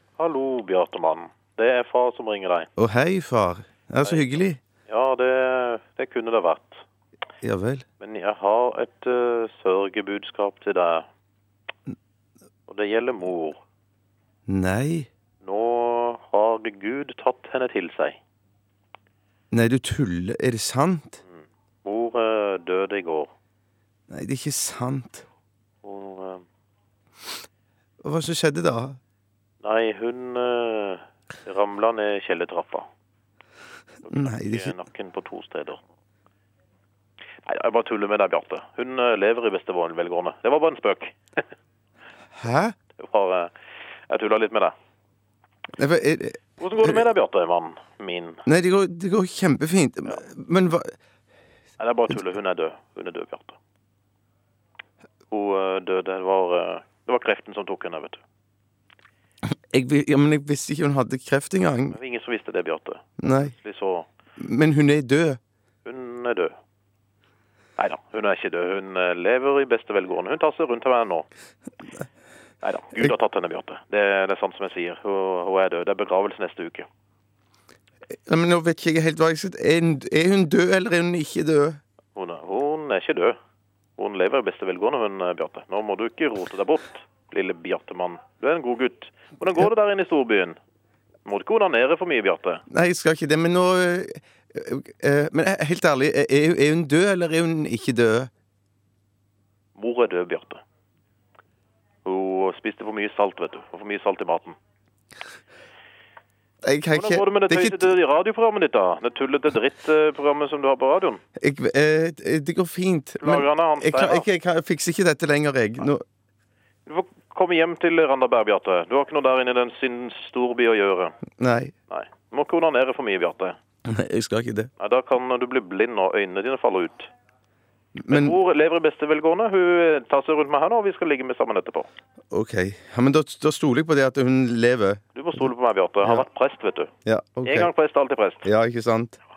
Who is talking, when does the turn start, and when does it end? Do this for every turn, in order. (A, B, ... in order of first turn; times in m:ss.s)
0:00.2-0:02.7 A
0:02.8-0:04.6 B
0:04.9-0:06.8 A
0:07.4-0:07.8 B
0:08.0-0:11.1 A
0:12.7-0:13.6 A
0:14.5-0:15.1 B
0:15.4-0:18.2 A
0:19.5-0:21.2 B
0:21.3-0:23.3 A
0:24.1-0:25.2 B
0:25.8-0:26.4 A
0:28.0-0:29.0 B
0:29.6-0:32.9 A
0:34.0-0:35.8 A
0:34.1-0:34.7 B
0:37.4-0:41.4 A
0:42.4-0:42.8 B
0:43.0-0:43.5 A
0:44.1-0:44.7 A
0:45.8-0:47.0 B
0:46.6-0:48.4 A
0:48.5-0:50.9 B
0:51.8-0:53.6 A
0:55.3-0:58.2 A
0:59.7-1:02.0 B
1:01.9-1:04.1 A
1:03.2-1:03.6 B
1:04.4-1:05.4 B
1:05.8-1:06.5 A
1:07.8-1:11.3 A
1:12.6-1:16.9 A
1:18.3-1:21.8 B
1:22.2-1:23.4 A
1:24.0-1:30.6 A
1:31.2-1:32.6 A
1:32.7-1:38.3 B
1:39.8-1:40.6 A
1:42.0-1:44.6 A
1:46.6-1:47.9 B
1:47.0-1:51.2 A
1:51.4-1:56.0 B
1:53.2-1:54.3 A
1:56.9-2:01.2 A
2:01.4-2:01.7 B
2:01.9-2:03.6 A
2:03.9-2:04.7 B
2:04.8-2:07.1 A
2:08.0-2:08.4 B
2:08.1-2:11.9 A
2:12.3-2:15.0 B
2:15.1-2:16.9 A
2:17.0-2:17.7 B
2:17.4-2:18.5 A
2:18.4-2:19.2 B